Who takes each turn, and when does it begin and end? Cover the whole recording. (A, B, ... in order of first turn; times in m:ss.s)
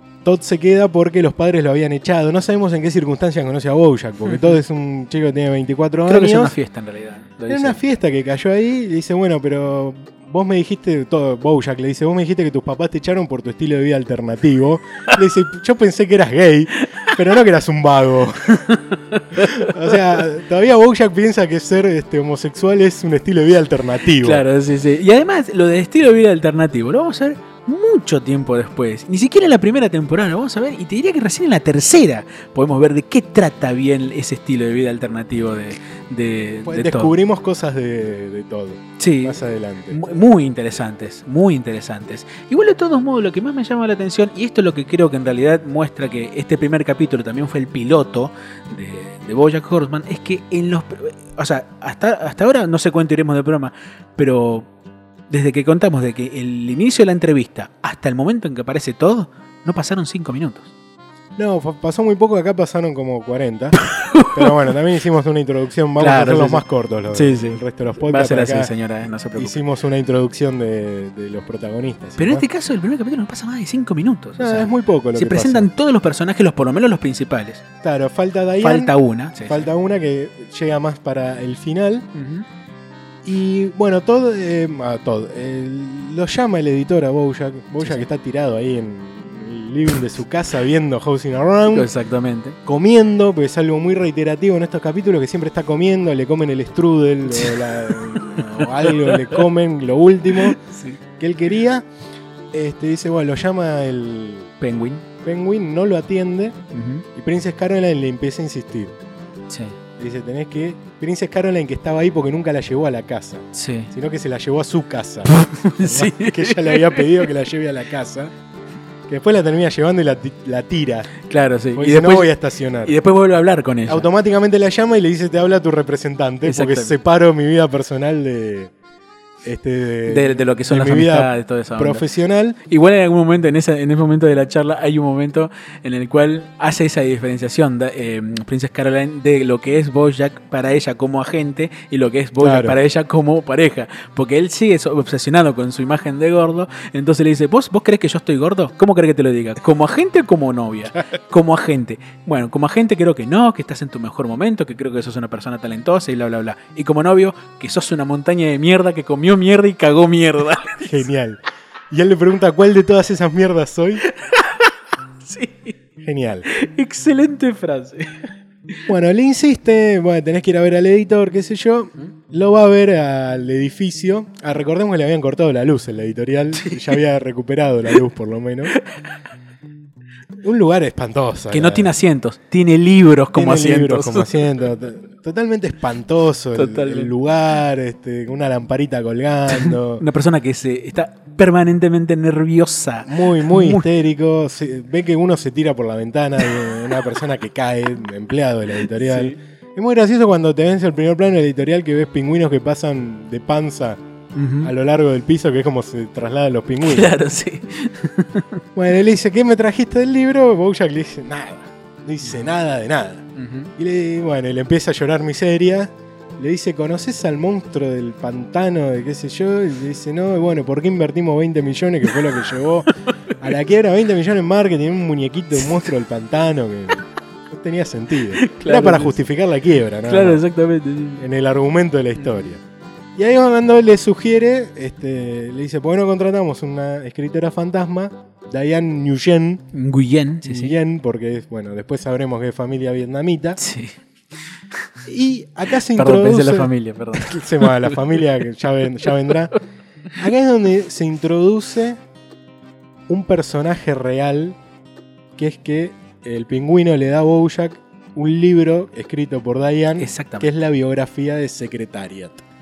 0:00.2-0:06.6 A
0:06.1-0:07.8 B
0:07.5-0:18.6 A
0:18.5-0:20.0 B
0:19.3-0:24.4 A
0:24.2-0:37.1 B
0:36.6-0:40.0 A
0:39.0-0:54.7 B
0:55.3-1:00.7 B
1:01.4-1:03.8 A
1:03.8-1:04.7 B
1:04.3-1:08.7 A
1:06.0-1:09.6 B
1:09.4-1:12.4 A
1:12.2-1:17.6 B
1:14.4-1:15.7 A
1:17.8-1:18.9 A
1:18.6-1:19.7 B
1:19.4-1:22.1 A
1:22.1-1:22.4 B
1:23.2-1:31.9 A
1:31.6-1:32.6 B
1:32.6-1:40.6 A
1:37.3-1:39.4 B
1:40.4-1:41.0 B
1:41.2-1:41.8 A
1:42.5-1:44.5 A
1:44.6-1:45.0 B
1:45.2-1:46.6 A
1:46.7-1:47.0 B
1:47.1-1:48.9 A
1:49.5-1:49.8 B
1:50.0-1:58.3 A
1:53.5-1:53.9 B
1:55.3-1:57.3 B
1:59.1-2:01.1 A
2:01.2-2:04.1 B
2:01.7-2:03.0 A
2:03.9-2:08.7 A
2:06.4-2:07.0 B
2:09.4-2:12.6 A
2:10.0-2:12.0 B
2:12.7-2:41.0 B
2:22.4-2:22.8 A
2:40.8-2:41.4 A
2:41.9-2:44.0 A
2:44.0-2:45.7 B
2:46.0-2:46.5 A
2:46.5-2:48.8 B
2:48.9-2:58.8 A
3:00.4-3:01.9 A
3:01.5-3:04.4 B
3:03.3-3:10.0 A
3:06.5-3:07.1 B
3:09.5-3:13.9 B
3:13.0-3:24.0 A
3:18.9-3:19.4 B
3:24.3-3:24.7 B
3:24.6-3:27.1 A
3:26.8-3:28.6 B
3:28.7-3:50.4 A
3:33.4-3:33.7 B
3:48.4-3:49.2 B
3:50.1-3:51.2 B
3:51.2-3:52.6 A
3:53.2-3:59.6 A
3:59.7-4:00.7 B
4:00.4-4:03.6 A
4:03.6-4:04.0 B
4:05.0-4:09.5 A
4:05.9-4:08.2 B
4:10.2-4:12.0 A
4:13.1-4:14.6 A
4:15.4-4:22.4 A
4:20.0-4:20.5 B